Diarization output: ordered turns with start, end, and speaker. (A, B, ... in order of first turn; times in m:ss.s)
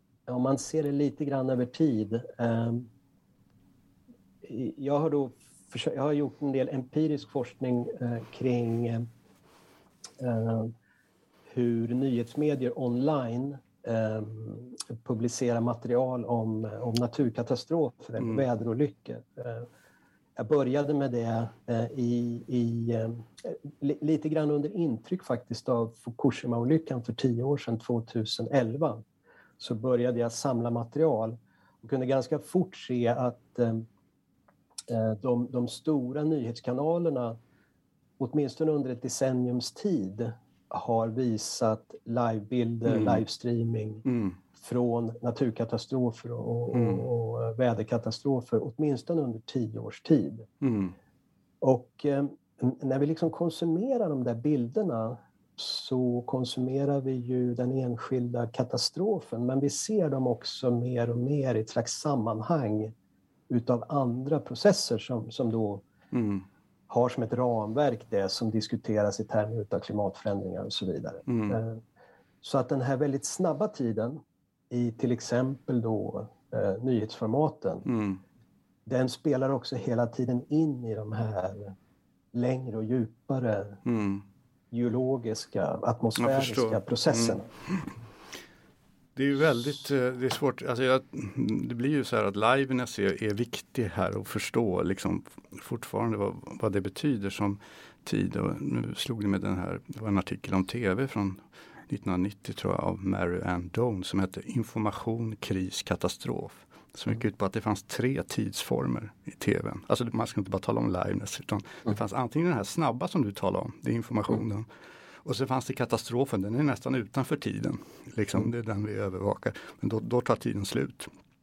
0:00.3-0:02.9 A
0:04.4-0:09.1 A
0:10.2-0:10.7 A
0:11.5-0:19.7 A
0:20.4-0:29.0 A
0:29.6-0:33.8 A
0:34.9-0:37.4 A
0:38.2-0:50.5 A
0:42.8-0:43.2 B
0:44.0-0:44.4 B
0:46.7-0:47.0 B
0:50.6-0:50.9 B
0:51.6-1:02.9 A
1:03.5-1:05.8 A
1:06.1-1:06.4 B
1:06.9-1:11.8 A
1:11.3-1:11.6 B
1:12.4-1:17.8 A
1:17.8-1:18.2 B
1:18.8-1:21.8 A
1:22.3-1:23.8 A
1:23.8-1:24.2 B
1:24.7-1:27.5 A
1:26.2-1:27.9 B
1:29.1-1:54.7 B
1:55.2-2:01.1 B